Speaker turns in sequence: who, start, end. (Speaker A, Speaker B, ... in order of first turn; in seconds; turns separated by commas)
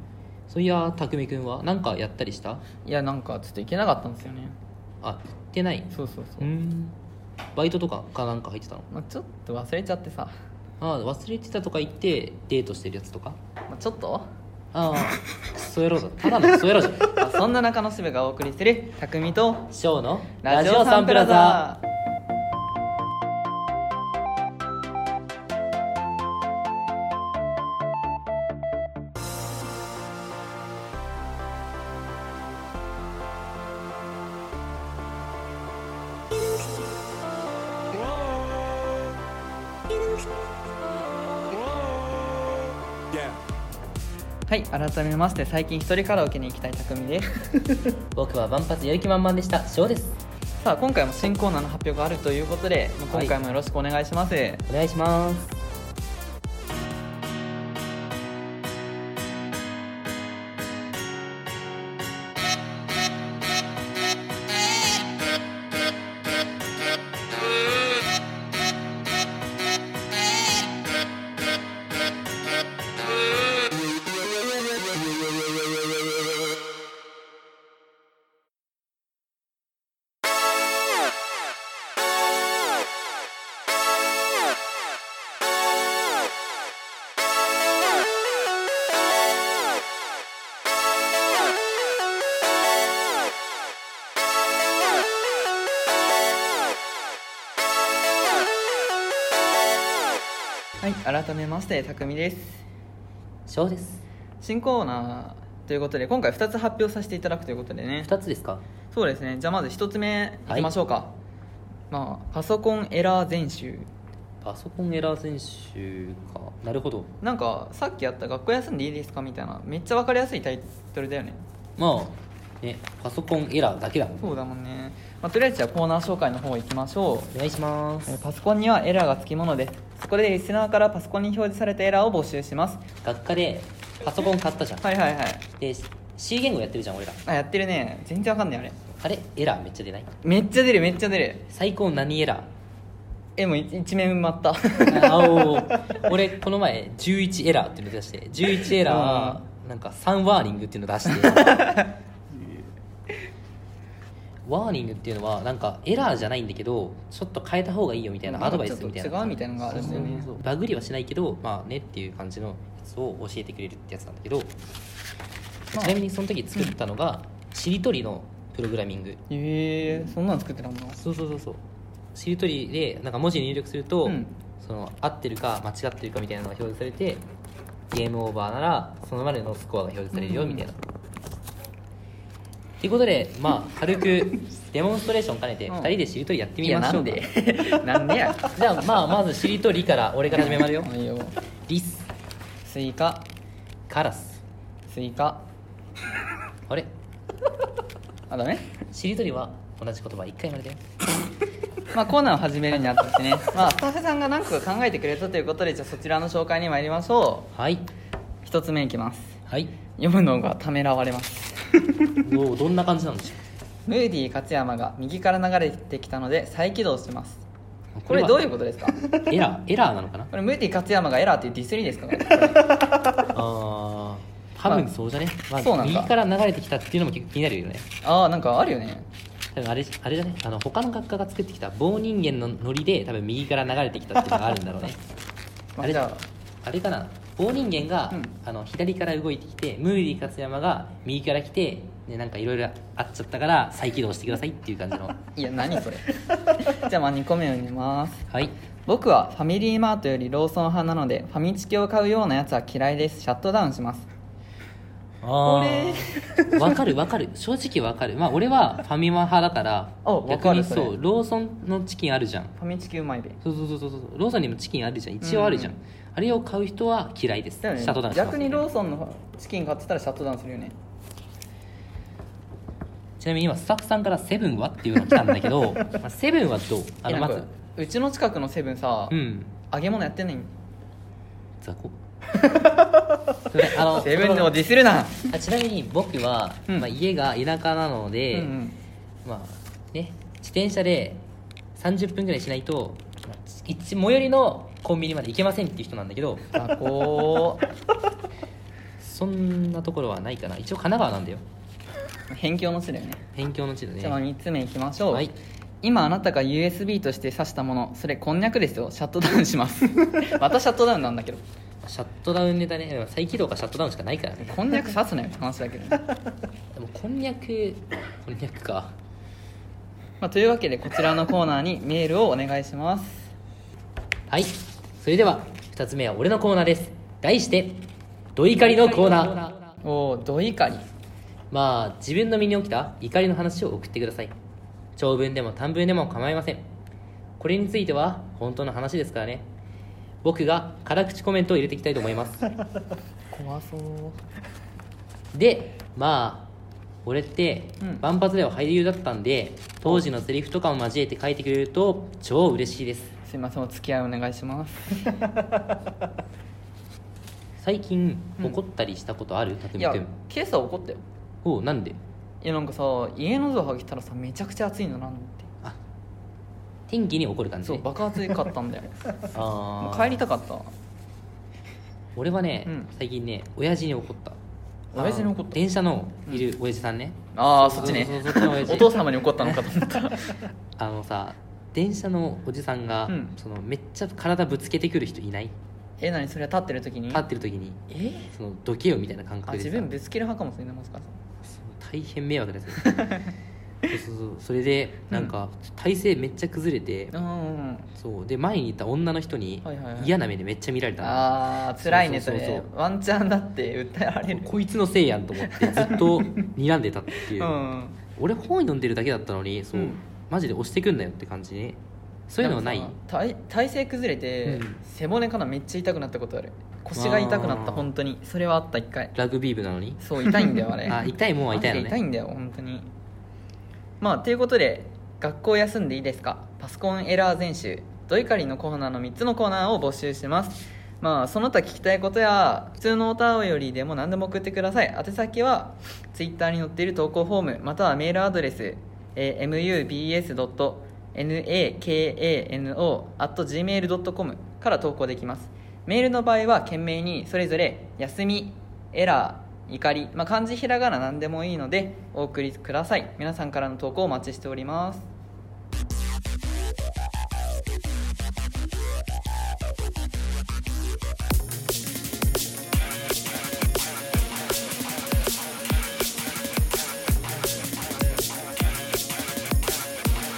Speaker A: 0.5-2.6, Speaker B: 2.8-4.5, Speaker A: 5.0-7.0, Speaker B: 5.9-6.5, Speaker A: 7.5-8.9, Speaker B: 8.9-10.3, Speaker A: 10.8-13.4, Speaker B: 13.7-14.3, Speaker A: 14.7-17.1, Speaker B: 17.0-19.7, Speaker A: 19.7-21.7, Speaker B: 20.4-21.8, Speaker B: 44.5-47.4, Speaker A: 48.1-50.2, Speaker B: 50.6-54.6, Speaker A: 54.7-55.6, Speaker B: 100.8-102.6, Speaker A: 103.5-104.0, Speaker B: 104.4-108.1, Speaker A: 108.0-108.6, Speaker B: 108.9-111.1, Speaker A: 110.5-110.7, Speaker B: 111.9-113.9, Speaker A: 114.4-117.1, Speaker B: 117.2-121.4, Speaker A: 121.8-124.3, Speaker B: 124.2-127.3, Speaker A: 127.3-128.1, Speaker B: 128.1-132.9, Speaker A: 133.0-134.8, Speaker B: 134.8-135.4, Speaker A: 135.6-137.2, Speaker B: 137.2-138.8, Speaker A: 139.0-140.1, Speaker B: 140.2-141.4, Speaker A: 141.5-142.5, Speaker B: 143.4-145.6, Speaker A: 144.8-151.6, Speaker B: 148.7-149.4, Speaker B: 151.1-151.9, Speaker A: 154.4-164.5, Speaker B: 158.2-160.3, Speaker A: 165.7-169.2, Speaker B: 169.3-171.0, Speaker A: 171.0-171.6, Speaker A: 172.1-177.2, Speaker B: 174.0-174.3, Speaker A: 177.9-180.8, Speaker B: 180.1-180.6, Speaker A: 182.8-187.2, Speaker B: 185.7-185.9, Speaker B: 186.6-188.6, Speaker A: 188.5-190.9, Speaker B: 190.3-191.3, Speaker A: 191.7-192.1, Speaker B: 192.6-193.3, Speaker A: 193.9-194.4, Speaker B: 194.9-195.4, Speaker B: 198.3-198.7, Speaker A: 198.9-200.8, Speaker B: 201.9-207.5, Speaker A: 207.5-207.9, Speaker B: 208.4-209.4, Speaker B: 210.0-212.2, Speaker A: 212.2-213.4, Speaker B: 213.8-217.4, Speaker A: 217.9-218.5, Speaker B: 218.1-219.0, Speaker A: 219.1-220.3, Speaker B: 220.3-222.8, Speaker A: 223.3-227.8, Speaker B: 225.5-226.1, Speaker B: 228.0-229.1, Speaker A: 229.5-235.0, Speaker B: 235.8-236.2, Speaker A: 236.6-245.2, Speaker B: 245.3-248.2, Speaker B: 248.9-254.1, Speaker A: 255.2-262.5, Speaker B: 255.4-256.8, Speaker B: 260.0-260.9, Speaker B: 262.6-263.4, Speaker A: 263.4-268.6, Speaker B: 265.2-265.7, Speaker B: 267.6-270.7, Speaker A: 273.2-277.5, Speaker B: 277.1-279.2, Speaker A: 279.1-279.5, Speaker B: 279.7-280.5, Speaker A: 281.6-281.9, Speaker A: 283.5-284.6, Speaker B: 283.6-285.3, Speaker A: 285.3-288.5, Speaker B: 288.3-288.8, Speaker A: 289.2-291.2, Speaker A: 291.8-296.6, Speaker B: 296.5-297.7, Speaker A: 299.0-301.4, Speaker B: 302.3-303.2, Speaker A: 303.3-304.2, Speaker B: 304.0-305.3, Speaker B: 305.8-311.4, Speaker A: 311.8-314.6, Speaker B: 314.4-316.1, Speaker A: 316.7-318.9, Speaker B: 320.2-323.3, Speaker A: 324.3-327.8, Speaker A: 328.4-329.6, Speaker B: 328.8-330.9, Speaker A: 331.5-334.3, Speaker A: 334.9-336.6, Speaker A: 337.4-339.5, Speaker A: 340.2-342.4, Speaker B: 343.3-344.2, Speaker A: 345.3-346.5, Speaker A: 347.0-353.1, Speaker B: 353.2-355.3, Speaker A: 357.6-360.1, Speaker B: 359.8-361.0, Speaker A: 361.4-362.0, Speaker B: 362.4-365.5, Speaker A: 366.9-367.9, Speaker B: 367.6-369.0, Speaker A: 369.3-370.2, Speaker B: 369.8-370.7, Speaker A: 372.1-374.4, Speaker B: 374.9-375.6, Speaker A: 374.9-379.6, Speaker B: 377.3-380.5, Speaker A: 380.8-385.5, Speaker B: 383.1-383.3, Speaker B: 386.0-387.2, Speaker A: 387.1-389.9, Speaker B: 387.9-388.3, Speaker B: 389.5-391.2, Speaker A: 391.4-393.2, Speaker B: 392.8-393.3, Speaker A: 393.9-397.1, Speaker B: 397.1-397.9, Speaker A: 398.0-402.6, Speaker B: 399.6-400.1, Speaker B: 401.0-404.5, Speaker A: 404.3-407.6, Speaker B: 405.4-406.5, Speaker B: 407.2-408.0, Speaker A: 408.1-412.9, Speaker B: 409.7-410.0, Speaker B: 412.4-419.1, Speaker A: 414.4-414.8, Speaker A: 416.9-417.9, Speaker A: 419.1-422.0, Speaker B: 420.0-422.9, Speaker B: 424.0-455.1